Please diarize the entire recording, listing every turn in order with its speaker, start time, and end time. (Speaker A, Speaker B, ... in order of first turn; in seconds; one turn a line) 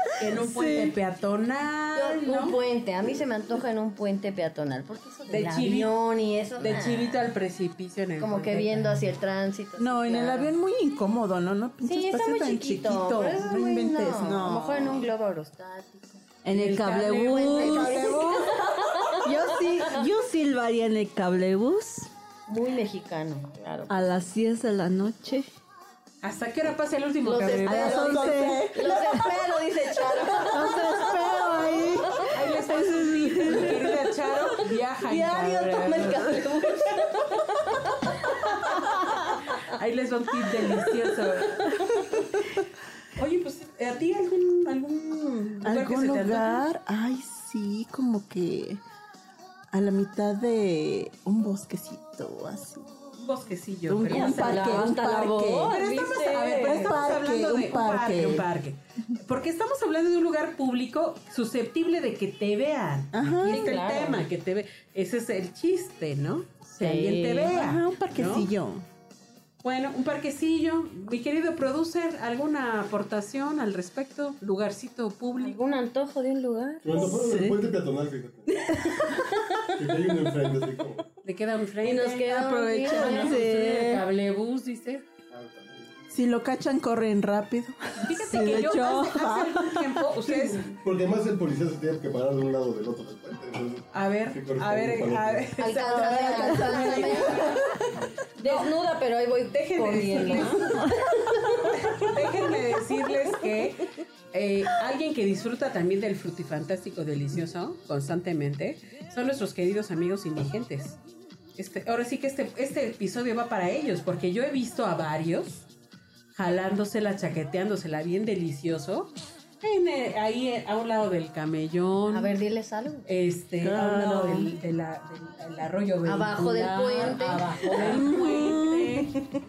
Speaker A: 0.2-2.6
Speaker B: 1.9-7.2
Speaker A: 5.3-5.9
Speaker A: 6.6-9.1
Speaker B: 8.2-10.5
Speaker C: 9.8-15.1
Speaker B: 11.8-16.3
Speaker D: 16.4-18.5
Speaker A: 16.5-17.8
Speaker B: 17.2-19.9
Speaker C: 17.6-18.8
Speaker D: 19.2-22.1
Speaker B: 22.5-24.0
Speaker D: 23.9-25.5
Speaker A: 26.2-28.1
Speaker B: 27.2-32.1
Speaker C: 27.6-28.9
Speaker D: 27.6-34.0
Speaker C: 30.5-31.8
Speaker A: 32.3-36.4
Speaker D: 35.1-37.7
Speaker D: 38.8-39.2
Speaker A: 39.2-41.7
Speaker A: 43.1-46.6
Speaker C: 45.6-48.8
Speaker C: 49.7-53.1
Speaker A: 53.2-54.9
Speaker C: 53.9-55.8
Speaker D: 54.1-56.6
Speaker B: 54.2-54.9
Speaker B: 55.6-57.0
Speaker A: 55.7-68.5
Speaker C: 56.6-58.5
Speaker C: 63.1-63.7
Speaker B: 63.4-64.3
Speaker B: 66.8-67.5
Speaker C: 67.4-68.8
Speaker A: 69.6-75.6
Speaker B: 75.4-77.2
Speaker E: 76.8-78.7
Speaker C: 77.0-77.6
Speaker B: 78.7-79.6
Speaker E: 79.8-81.0
Speaker A: 81.2-85.0
Speaker B: 81.8-83.5
Speaker C: 82.8-84.0
Speaker D: 83.1-83.5
Speaker E: 85.3-85.9
Speaker C: 86.1-90.6
Speaker A: 88.0-90.8
Speaker E: 90.8-95.6
Speaker A: 93.9-97.6
Speaker B: 95.6-97.6
Speaker C: 96.0-97.6
Speaker D: 96.2-96.8
Speaker E: 97.9-98.2
Speaker B: 98.3-101.4
Speaker A: 98.4-98.7
Speaker A: 99.6-111.0
Speaker A: 111.6-115.7
Speaker A: 116.3-122.3
Speaker B: 122.1-123.1
Speaker A: 123.1-129.2
Speaker C: 123.6-124.6
Speaker B: 126.0-128.3
Speaker C: 127.8-129.1